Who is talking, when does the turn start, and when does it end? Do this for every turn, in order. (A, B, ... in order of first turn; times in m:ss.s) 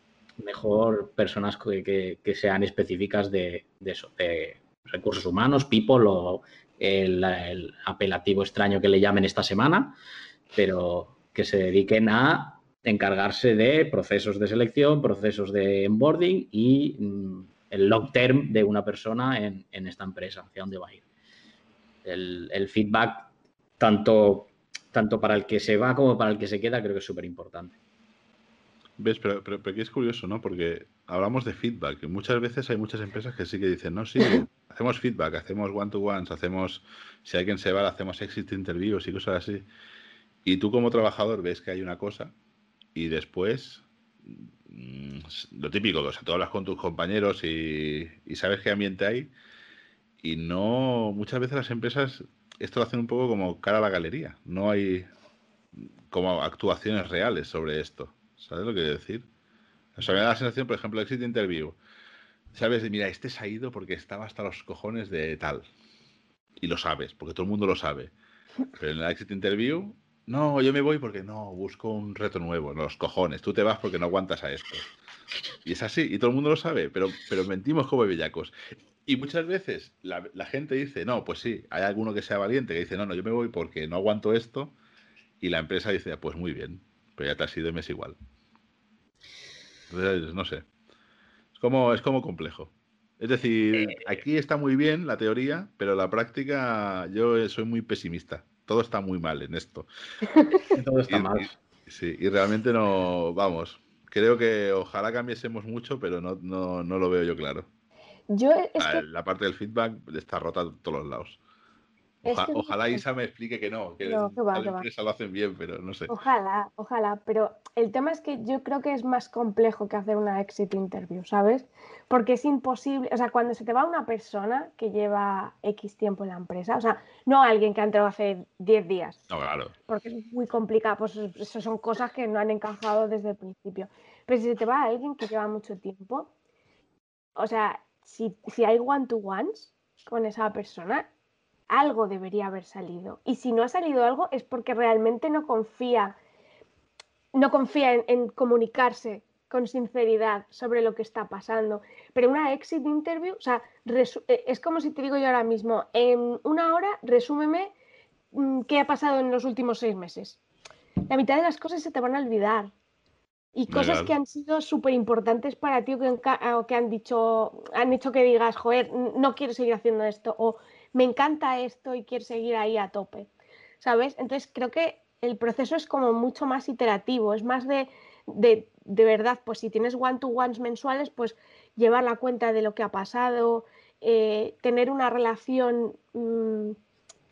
0:00.4-0:10.0 A
0:10.6-0:21.0 A
0:22.0-0:27.8 A
0:29.0-0:39.6 B
0:40.4-0:42.3 B
0:43.0-0:49.3 B
0:50.2-0:55.1 B
0:55.8-0:59.3 B
1:00.0-1:01.8 B
1:02.5-1:05.6 B
1:06.6-1:08.1 B
1:08.8-1:14.8 B
1:15.6-1:18.5 B
1:19.0-1:24.7 B
1:25.4-1:28.2 B
1:29.9-1:30.6 B
1:31.6-1:39.9 B
1:33.8-1:34.1 A
1:40.7-1:41.5 A
1:41.1-1:47.7 B
1:48.3-1:49.0 C
1:48.8-1:51.4 B
1:52.2-1:53.0 C
1:52.2-1:56.1 B
1:54.0-1:54.8 C
1:56.1-2:09.2 C
2:09.3-2:09.7 B
2:09.9-2:16.3 C
2:17.4-2:21.1 C
2:21.7-2:26.2 C
2:27.3-2:37.7 C
2:38.3-2:40.4 C
2:41.1-2:42.7 C
2:43.5-2:53.3 C
2:43.7-2:44.2 B
2:53.8-3:06.8 C